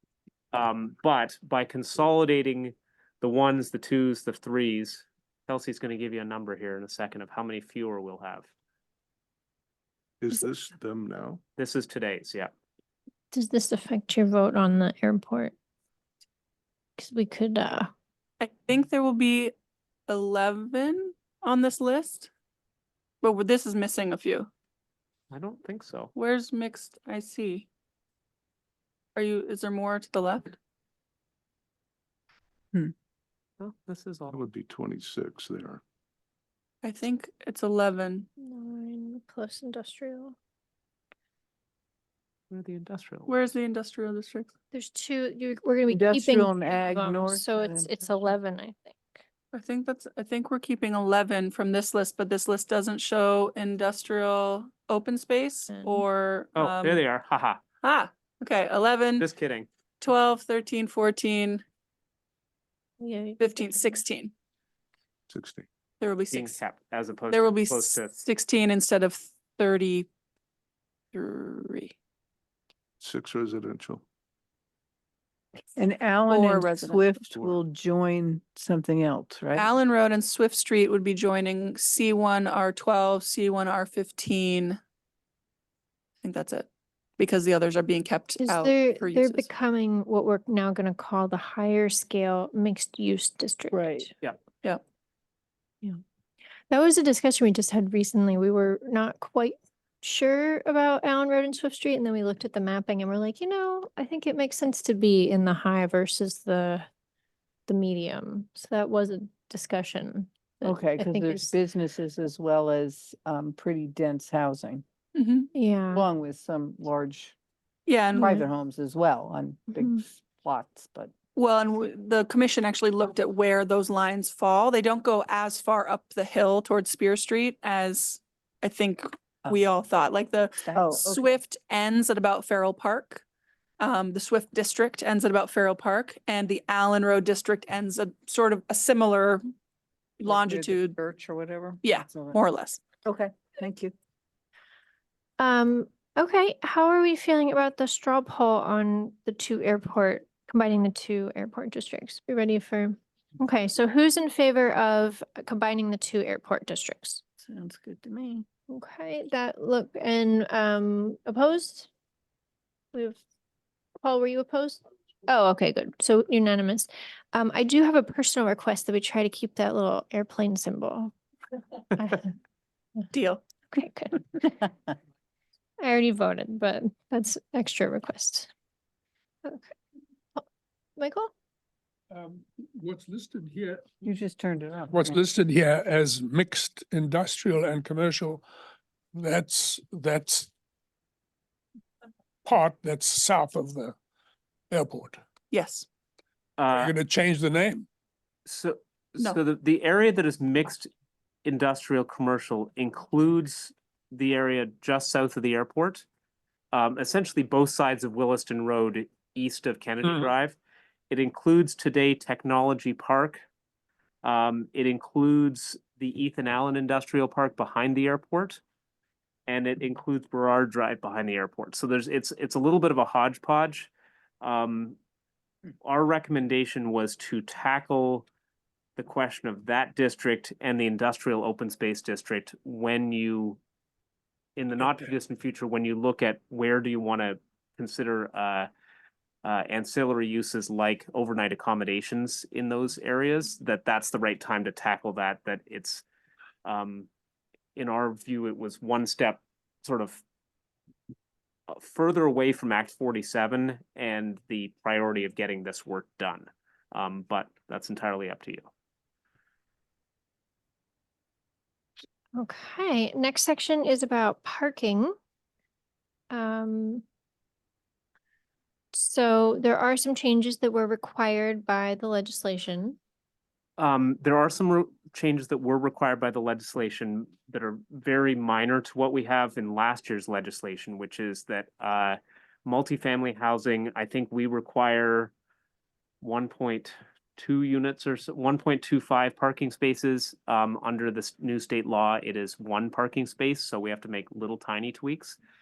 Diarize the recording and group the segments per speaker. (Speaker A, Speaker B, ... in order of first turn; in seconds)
Speaker A: 0.5-8.5, 11.6-12.5, 25.3-26.1, 33.6-34.4, 42.5-43.4, 56.5-57.6, 59.2-59.7, 66.3-68.1, 196.6-196.9, 198.4-200.9, 201.4-206.1, 206.7-210.6, 211.1-213.4, 214.2-218.6, 219.5-225.0, 225.8-228.3, 229.0-233.6, 234.6-238.7, 239.4-246.0, 246.6-247.1, 247.8-250.2, 251.7-258.7, 273.8-285.3, 286.2-295.4
Speaker B: 10.2-11.4, 34.3-35.8, 65.3-65.7, 73.0-74.0
Speaker C: 13.3-15.5, 17.0-17.9, 38.4-40.3, 44.7-49.2, 55.7-56.0, 63.0-64.0, 88.4-94.1, 96.7-106.9, 107.7-111.5, 115.5-116.0, 118.1-118.4, 145.4-157.2, 158.7-161.9, 162.9-163.2, 164.0-171.1, 171.9-172.3, 173.7-174.7, 175.8-178.5, 179.4-179.7, 181.0-181.3, 262.4-265.1, 266.3-267.0, 268.9-273.0
Speaker D: 18.4-19.5, 20.1-22.3, 23.2-24.5, 26.1-27.6, 29.1-30.6, 36.8-38.3, 43.3-44.5, 49.5-57.0, 57.8-59.2, 60.0-61.6, 63.4-64.3, 66.0-66.6, 67.3-70.1, 71.1-71.9, 76.3-77.5, 79.5-84.8, 86.2-86.7, 87.2-89.5, 115.1-115.5, 117.9-118.4, 121.3-133.2, 133.8-139.4, 140.2-140.9, 141.8-142.8, 173.1-173.4, 195.5-195.9
Speaker E: 45.9-47.9, 75.8-79.7, 93.7-94.1, 110.6-114.8, 115.9-117.3, 118.1-121.1, 130.7-131.2, 140.2-142.4, 143.0-143.9, 157.4-158.4, 184.0-185.2
Speaker F: 182.1-184.0, 184.9-188.4, 189.1-190.5, 192.4-193.9, 194.7-195.2, 196.7-197.9